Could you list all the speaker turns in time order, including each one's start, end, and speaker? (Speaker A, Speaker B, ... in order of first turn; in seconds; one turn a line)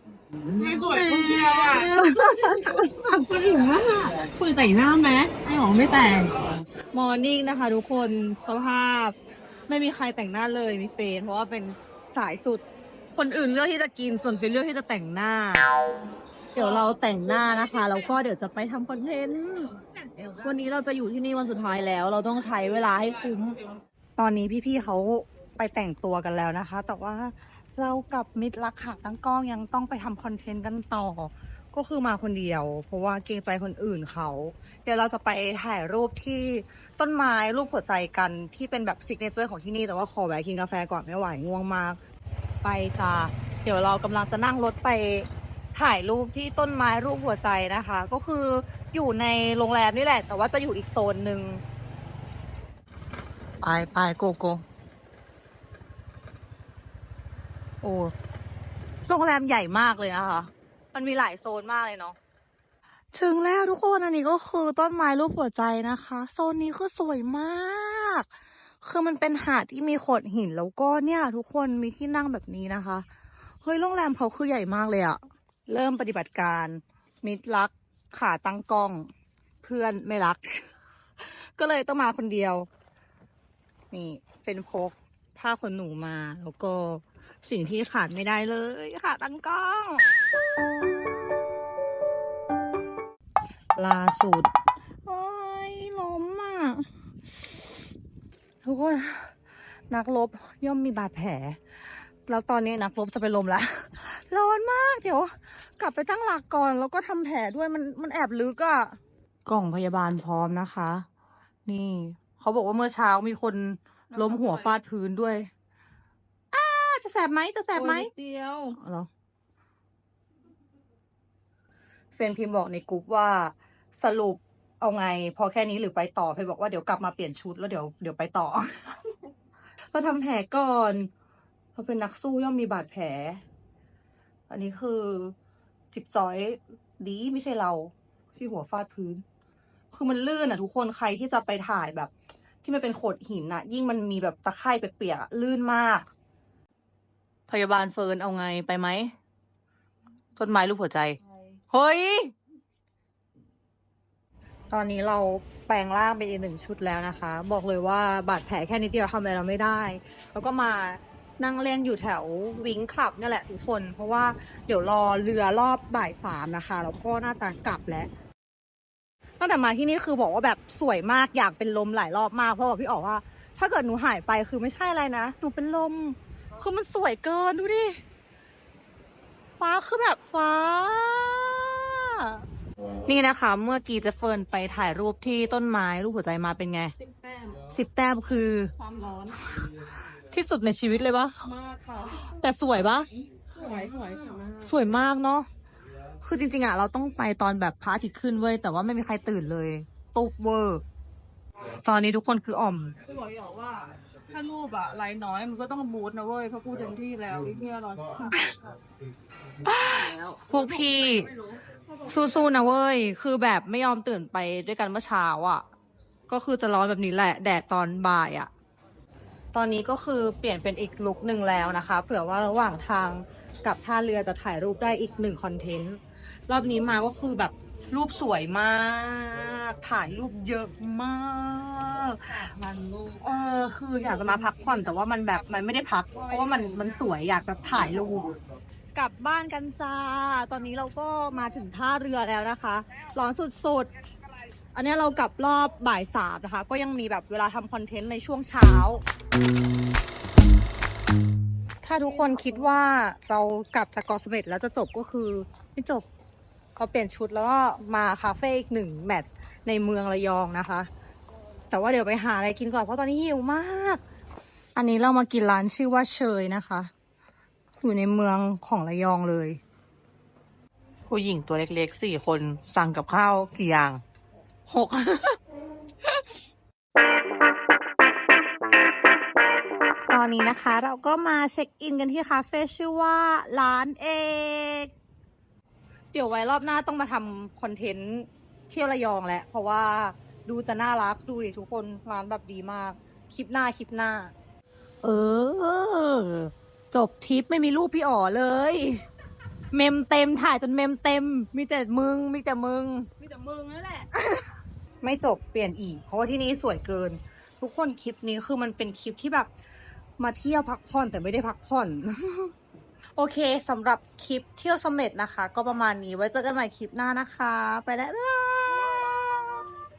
Speaker A: 0.5-6.5
Speaker B: 0.5-2.9
Speaker B: 6.9-9.2
Speaker B: 9.7-12.6
Speaker B: 13.2-15.7
Speaker A: 16.6-18.1
Speaker B: 16.6-19.8
Speaker A: 19.9-20.6
Speaker B: 20.4-23.6
Speaker A: 23.1-23.8
Speaker B: 24.2-42.0
Speaker B: 42.6-51.6
Speaker B: 53.6-54.6
Speaker B: 57.8-58.1
Speaker B: 59.1-62.2
Speaker B: 63.1-68.3
Speaker B: 68.8-73.0
Speaker B: 73.6-79.1
Speaker B: 79.6-80.7
Speaker B: 81.2-82.7
Speaker B: 83.9-90.1
Speaker B: 93.8-94.5
Speaker B: 95.0-97.7
Speaker B: 98.6-99.3
Speaker B: 99.9-101.6
Speaker B: 102.3-111.1
Speaker B: 111.7-115.5
Speaker A: 114.1-114.7
Speaker B: 116.5-118.1
Speaker A: 117.7-118.8
Speaker B: 118.8-119.1
Speaker B: 122.1-129.0
Speaker B: 129.9-131.1
Speaker B: 131.8-133.4
Speaker B: 134.5-135.3
Speaker B: 135.9-139.2
Speaker B: 139.9-142.1
Speaker B: 142.6-146.1
Speaker B: 147.5-149.1
Speaker B: 150.4-151.2
Speaker A: 151.2-151.6
Speaker B: 151.7-152.3
Speaker B: 154.7-168.1
Speaker B: 169.4-178.0
Speaker B: 179.6-182.4
Speaker B: 183.1-186.9
Speaker A: 187.0-187.7
Speaker B: 187.7-188.7
Speaker A: 188.8-189.7
Speaker B: 190.3-191.5
Speaker A: 191.4-192.3
Speaker B: 192.4-193.1
Speaker A: 193.5-194.7
Speaker B: 194.6-195.5
Speaker B: 196.2-200.8
Speaker B: 201.8-202.9
Speaker A: 203.1-208.4
Speaker B: 209.7-211.3
Speaker A: 209.7-212.2
Speaker B: 212.1-215.7
Speaker B: 216.3-218.5
Speaker B: 219.5-232.4
Speaker A: 232.3-233.2
Speaker B: 233.2-238.4
Speaker A: 236.3-236.8
Speaker B: 238.9-243.9
Speaker B: 244.8-249.0
Speaker B: 251.8-256.1
Speaker A: 252.0-252.7
Speaker B: 256.8-260.9
Speaker B: 261.7-264.0
Speaker B: 264.8-266.9
Speaker B: 267.8-269.6
Speaker B: 271.1-274.0
Speaker B: 274.7-275.4
Speaker B: 280.1-284.9
Speaker B: 286.1-294.3
Speaker B: 295.0-299.1
Speaker B: 299.7-303.1
Speaker A: 303.2-304.1
Speaker B: 305.0-309.5
Speaker B: 310.2-312.5
Speaker B: 313.2-319.7